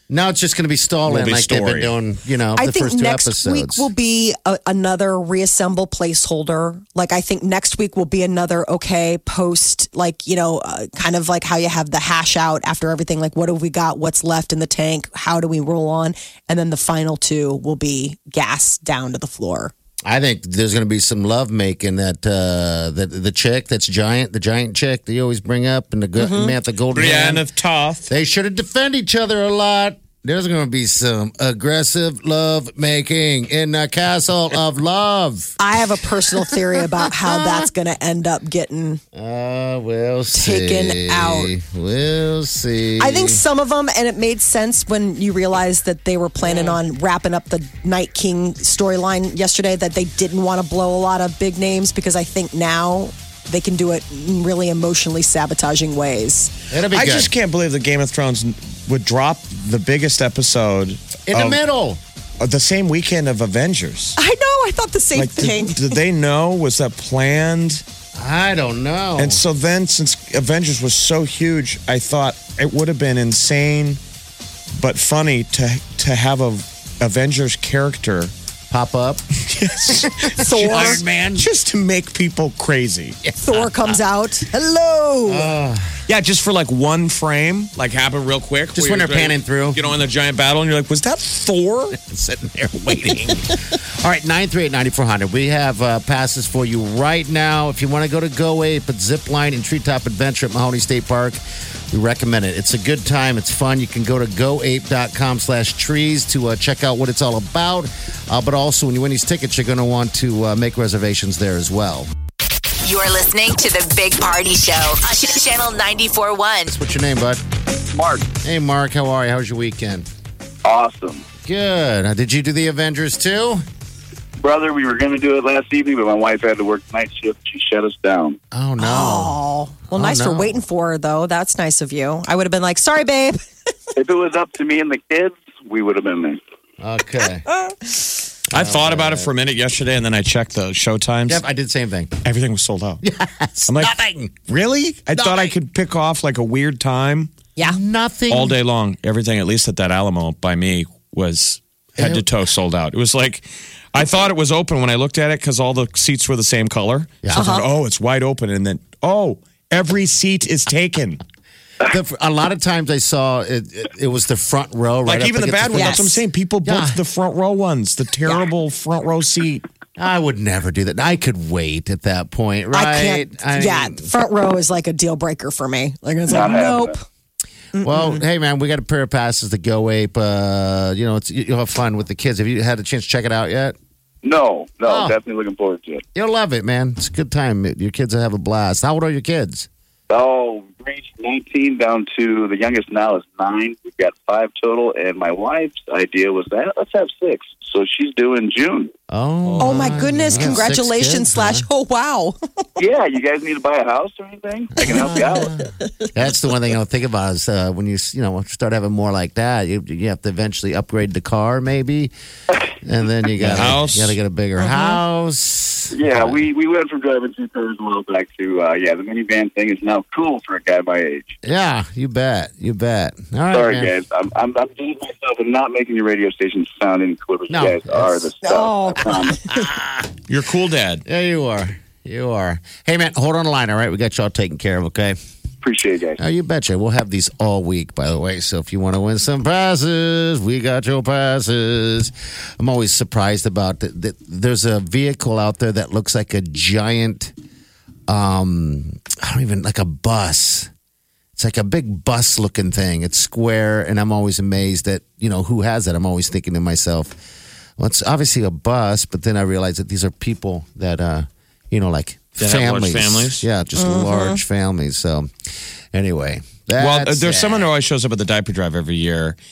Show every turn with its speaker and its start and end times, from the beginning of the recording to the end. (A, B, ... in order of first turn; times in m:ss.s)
0:00.1-0:03.9 A
0:01.0-0:01.9 B
0:02.6-0:19.7 C
0:20.0-0:27.4 A
0:26.2-0:26.6 C
0:26.9-0:28.1 B
0:28.1-0:35.5 A
0:35.6-0:39.0 C
0:37.0-0:37.7 A
0:39.1-0:43.4 A
0:40.3-0:41.5 C
0:43.0-0:56.5 C
0:46.4-0:46.8 A
0:56.7-0:57.3 A
0:56.9-1:01.6 B
1:01.3-1:02.0 A
1:02.4-1:04.2 B
1:04.2-1:06.0 C
1:05.1-1:07.8 B
1:08.2-1:09.4 A
1:09.2-1:14.0 B
1:14.8-1:18.3 B
1:18.7-1:19.2 A
1:19.5-1:23.2 B
1:19.9-1:21.5 A
1:20.4-1:21.0 C
1:23.2-1:24.0 A
1:23.4-1:25.5 C
1:25.2-1:25.9 A
1:26.1-1:32.0 B
1:28.7-1:29.8 A
1:32.0-1:52.1 A
1:52.8-1:56.7 D
1:56.7-1:57.4 A
1:57.9-1:58.3 E
1:58.4-2:00.1 A
2:00.6-2:01.2 E
2:01.4-2:03.6 A
2:04.4-2:08.4 E
2:08.5-2:09.4 A
2:08.8-2:13.4 C
2:09.9-2:10.6 A
2:14.0-2:16.4 E
2:16.8-2:17.4 A
2:18.5-2:19.3 A
2:18.5-2:21.4 B
2:21.3-2:22.1 A
2:22.2-2:23.0 B
2:23.0-2:24.4 A
2:23.7-2:23.9 B
2:24.5-2:27.3 B
2:25.2-2:25.5 A
2:27.6-2:28.6 A
2:28.3-2:41.2 B
2:32.0-2:32.2 A
2:37.2-2:37.5 A
2:37.3-2:37.7 C
2:41.8-2:46.1 A
2:45.0-2:49.6 B
2:45.7-2:46.2 C
2:46.6-2:47.0 A
2:50.0-2:54.1 A
2:52.7-2:57.0 C
2:56.3-2:56.9 E
2:57.7-2:58.2 C
2:57.8-3:03.7 A
3:04.2-3:06.0 E
3:04.8-3:05.2 A
3:06.1-3:09.7 A
3:10.1-3:18.9 E
3:19.1-3:21.7 A
3:19.4-3:20.6 B
3:19.6-3:22.6 C
3:22.8-3:25.5 E
3:24.8-3:32.1 A
3:32.8-3:36.4 A
3:33.4-3:34.2 B
3:34.6-3:34.9 C
3:35.9-3:41.3 E
3:41.4-3:43.9 A
3:43.5-3:49.4 E
3:47.5-3:48.3 A
3:48.4-3:49.6 C
3:49.5-3:50.1 A
3:50.3-3:51.0 B
3:51.0-3:55.2 A
3:55.6-3:56.2 E
3:56.2-4:07.3 A
4:08.1-4:10.7 A
4:11.4-4:17.2 A
4:17.8-4:25.3 A
4:22.4-4:23.4 B
4:23.8-4:24.4 C
4:25.9-4:27.7 A
4:26.8-4:29.4 B